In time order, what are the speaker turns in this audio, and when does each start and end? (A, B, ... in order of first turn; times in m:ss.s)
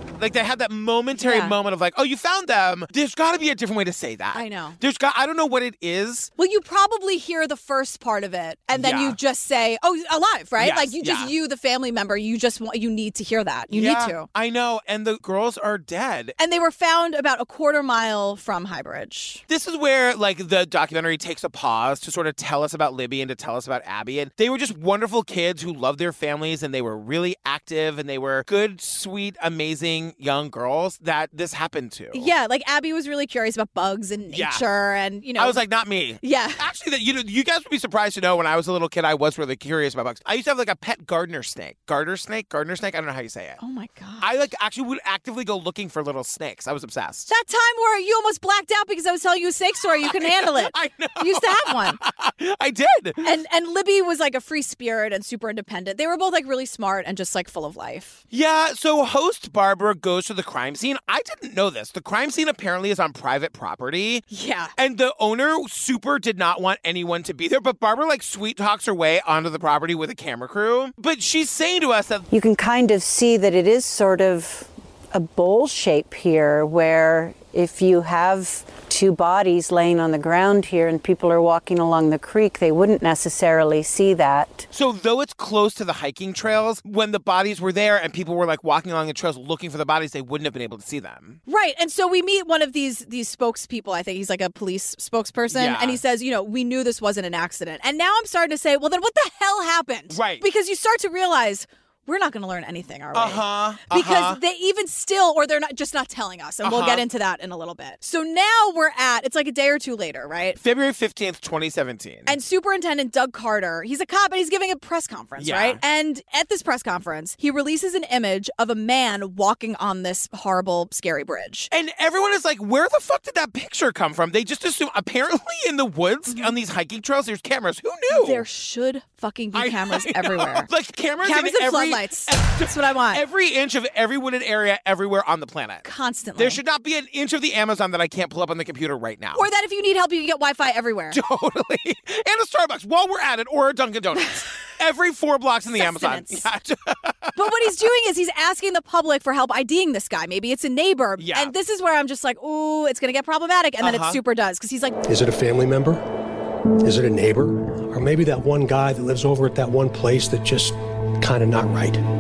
0:00.2-0:06.3 A
0:01.2-0:01.6 B
0:04.3-0:04.8 B
0:06.4-0:14.3 B
0:08.7-0:09.2 A
0:10.6-0:11.3 A
0:13.7-0:16.4 A
0:16.4-0:19.4 B
0:19.5-0:32.3 A
0:32.1-0:35.6 B
0:34.3-0:34.6 A
0:35.4-0:43.6 A
0:36.2-0:36.6 B
0:43.6-0:44.3 B
0:44.2-0:47.3 A
0:47.3-0:52.0 B
0:50.0-0:53.3 A
0:53.2-0:58.2 B
0:58.3-1:04.2 A
1:04.3-1:04.7 B
1:04.8-1:12.3 A
1:12.3-1:24.7 C
1:24.7-1:31.4 A
1:31.5-1:50.6 B
1:35.5-1:36.0 A
1:40.1-1:40.4 A
1:43.1-1:44.4 A
1:46.6-1:47.1 A
1:50.6-1:52.4 A
1:52.3-2:01.7 B
1:55.4-1:55.8 A
2:01.7-2:08.4 A
2:06.3-2:06.5 B
2:08.1-2:10.7 B
2:09.5-2:15.9 A
2:11.2-2:13.2 B
2:15.8-2:16.6 B
2:16.4-2:19.4 A
2:19.4-2:21.2 B
2:21.1-2:27.4 A
2:25.8-2:26.4 B
2:27.4-2:35.0 B
2:31.2-2:31.5 A
2:33.8-2:34.2 A
2:35.0-2:36.0 D
2:36.8-2:42.0 D